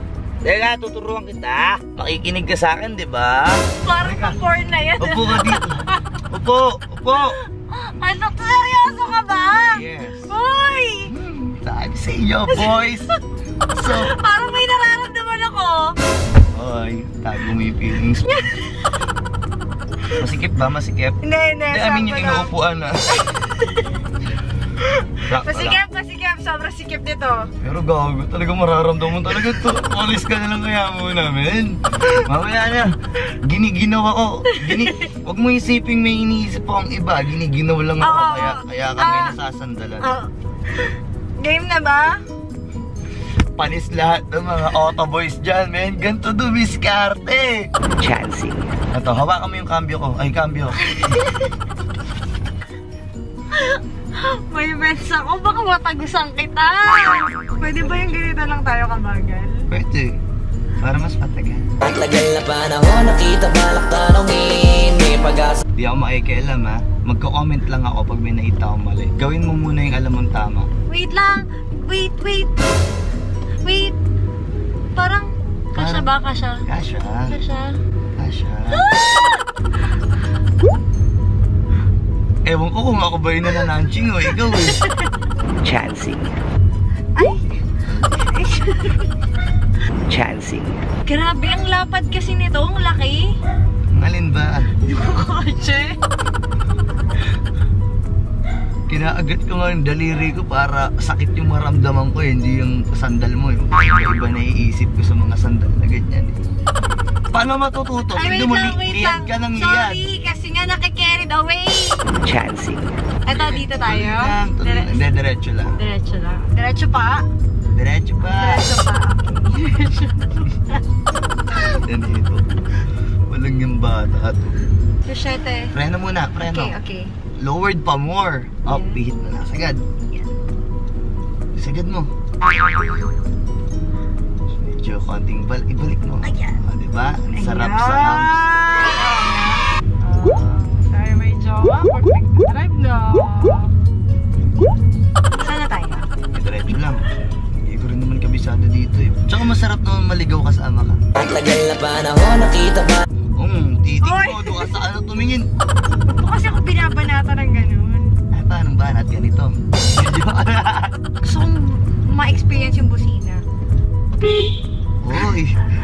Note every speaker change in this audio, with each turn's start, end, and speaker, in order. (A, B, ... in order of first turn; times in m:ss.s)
0:00.4-0:04.4 A
0:03.8-0:06.0 B
0:05.0-0:07.4 A
0:07.2-0:11.1 B
0:09.7-0:10.3 A
0:11.1-0:13.1 A
0:12.5-0:13.2 B
0:13.8-0:15.9 B
0:13.8-0:14.1 A
0:16.5-0:18.3 A
0:18.2-0:18.9 B
0:20.2-0:21.2 A
0:21.2-0:22.5 B
0:21.7-0:23.0 A
0:23.1-0:23.9 B
0:24.8-0:27.5 B
0:25.3-0:25.8 A
0:27.6-0:40.1 A
0:34.5-0:35.1 B
0:38.0-0:39.3 B
0:40.0-0:42.2 B
0:43.6-0:51.0 A
0:51.0-0:51.5 B
0:53.5-0:59.6 B
0:59.7-1:00.2 A
1:00.8-1:01.7 A
1:01.9-1:05.6 C
1:05.8-1:10.7 A
1:10.9-1:12.7 B
1:13.6-1:14.0 B
1:15.0-1:16.6 B
1:15.7-1:16.1 A
1:16.6-1:17.3 A
1:17.3-1:17.7 B
1:18.2-1:18.9 A
1:18.7-1:19.4 B
1:22.4-1:24.8 A
1:24.4-1:25.1 B
1:25.6-1:26.3 A
1:27.2-1:29.1 B
1:30.1-1:30.7 A
1:31.0-1:33.3 B
1:33.9-1:34.7 A
1:34.8-1:36.0 B
1:38.9-1:46.4 A
1:47.3-1:50.0 A
1:48.1-1:52.0 B
1:52.2-1:55.7 A
1:53.2-1:54.9 B
1:55.8-1:57.2 B
1:57.7-1:58.7 A
1:58.2-2:00.8 B
2:01.7-2:02.4 A
2:03.3-2:04.6 A
2:05.0-2:05.7 B
2:05.7-2:06.7 A
2:06.4-2:07.1 B
2:07.4-2:09.8 A
2:08.7-2:09.0 B
2:11.5-2:12.1 A
2:14.5-2:18.4 A
2:16.2-2:16.6 B
2:17.3-2:23.7 B
2:25.4-2:26.1 B
2:26.3-2:27.0 A
2:27.6-2:31.0 A
2:31.3-2:32.7 C
2:33.4-2:35.5 A
2:34.0-2:34.8 B
2:36.1-2:38.1 B
2:38.3-2:40.9 A
2:41.2-2:43.4 B
2:44.2-2:44.5 B
2:45.0-2:45.6 A